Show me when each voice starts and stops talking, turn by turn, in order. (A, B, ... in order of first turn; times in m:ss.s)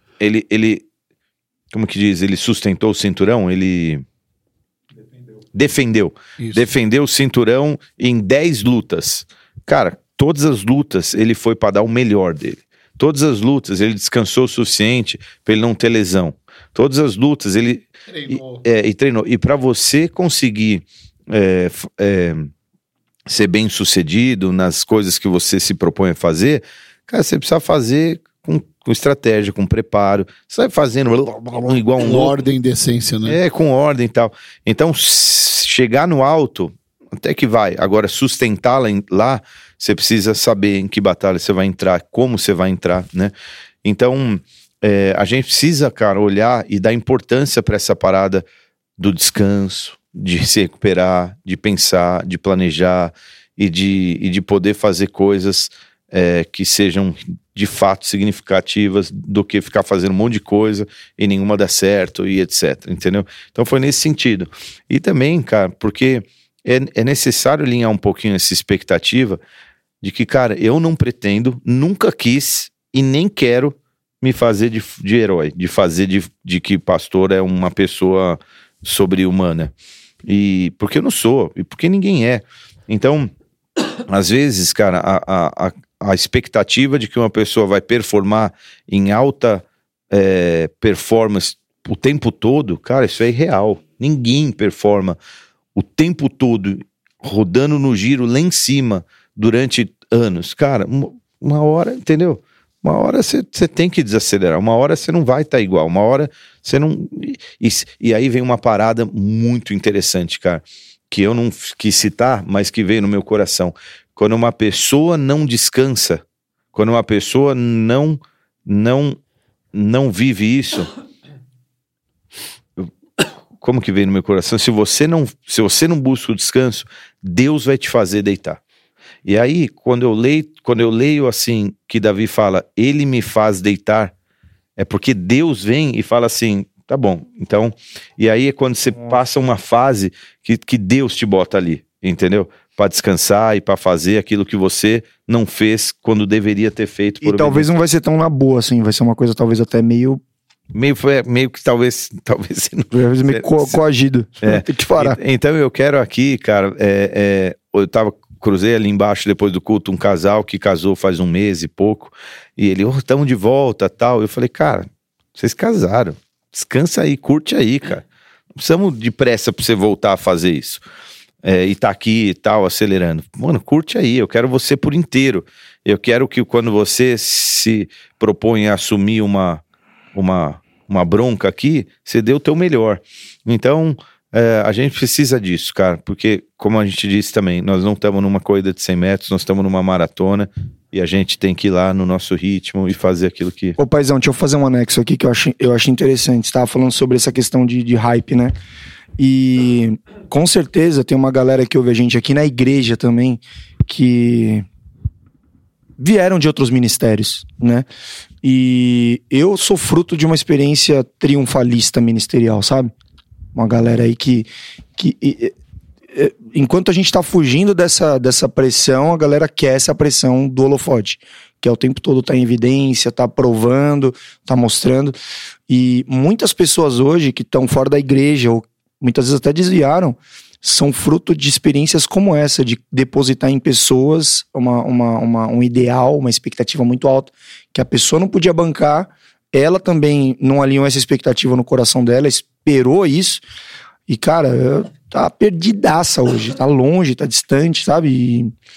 0:00.2-0:00.8 A
0:01.7-0:04.0 A
0:05.5-0:22.5 A
0:06.4-0:06.7 B
0:18.1-0:18.6 B
0:23.3-0:32.4 A
0:32.0-0:33.4 B
0:33.3-0:43.3 A
0:43.8-0:48.4 A
0:49.0-1:09.4 A
1:10.0-1:19.7 A
1:20.3-1:23.3 A
1:24.1-1:35.2 A
1:35.8-1:56.2 A
1:56.7-1:59.2 A
1:59.7-2:00.9 A
2:03.6-2:08.6 A
2:09.2-2:14.1 A
2:14.8-2:27.7 A
2:27.2-2:30.2 C
2:30.7-2:33.8 A
2:32.9-2:35.2 C
2:34.4-2:48.0 A
2:48.6-2:50.8 A
2:51.4-2:59.6 A
3:00.2-3:13.8 A
3:13.8-3:18.5 C
3:19.2-3:24.7 C
3:26.0-3:27.9 C
3:28.4-3:32.9 C
3:33.6-3:35.6 C
3:36.1-3:45.2 C
3:45.7-4:03.4 C
4:04.1-4:08.5 C